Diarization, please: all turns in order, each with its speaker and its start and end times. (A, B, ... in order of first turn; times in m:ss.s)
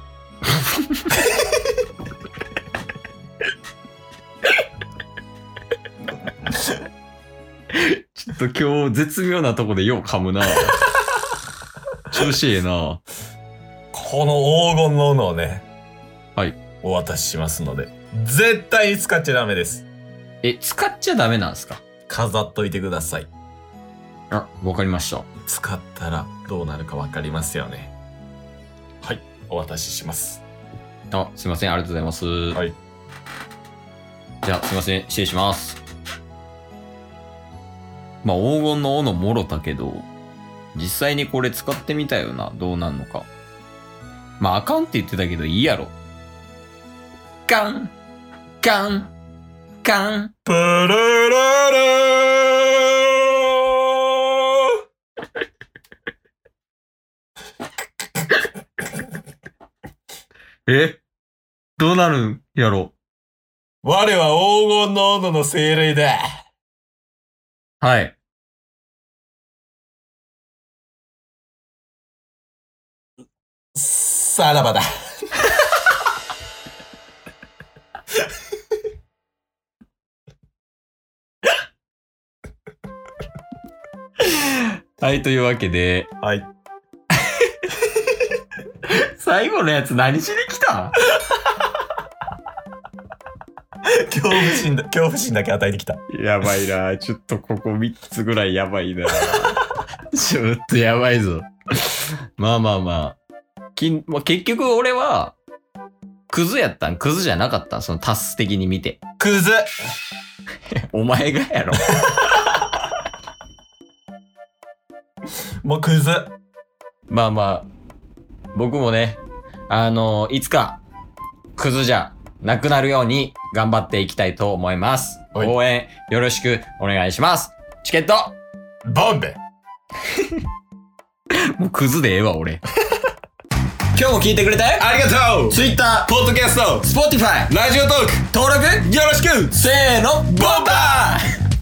0:00.6-0:01.0 A
0:07.7-0:10.8 A
0:12.1-0:13.0 A
0:13.9-0:15.6 B
0:16.8-0:19.9 B
0:20.4-0:21.8 A
0:22.1-0:23.3 B
0:24.3-0:25.3 A
0:25.4-0:27.9 B
0:29.0-0:30.4 B
0:31.1-0:32.6 A
0:34.4-0:35.8 A
0:38.2-0:40.1 A
0:40.7-0:43.3 A
0:44.4-0:45.9 A
0:47.5-0:47.9 A
0:48.6-0:49.1 A
0:49.8-0:50.3 A
0:50.4-0:54.7 B
1:00.6-1:01.0 A
1:01.8-1:02.9 A
1:03.8-1:06.2 B
1:07.8-1:08.2 A
1:13.7-1:15.5 B
1:24.2-1:26.1 A
1:26.2-1:26.5 B
1:27.2-1:27.6 A
1:28.8-1:31.0 A
1:33.8-1:36.0 B
1:36.1-1:43.2 A
1:43.8-1:45.4 A
1:46.3-1:49.0 A
1:49.2-1:49.8 B
1:50.9-1:52.4 A
1:52.1-1:52.4 B
1:55.6-1:56.3 B
1:57.1-1:57.7 A
1:58.5-2:00.8 A
2:01.6-2:08.4 A
2:08.8-2:09.4 B
2:11.4-2:12.6 A
2:13.9-2:14.9 A
2:14.8-2:16.9 B
2:15.5-2:16.1 A
2:16.8-2:17.5 A
2:17.5-2:19.5 B
2:18.3-2:21.2 A
2:20.3-2:21.1 B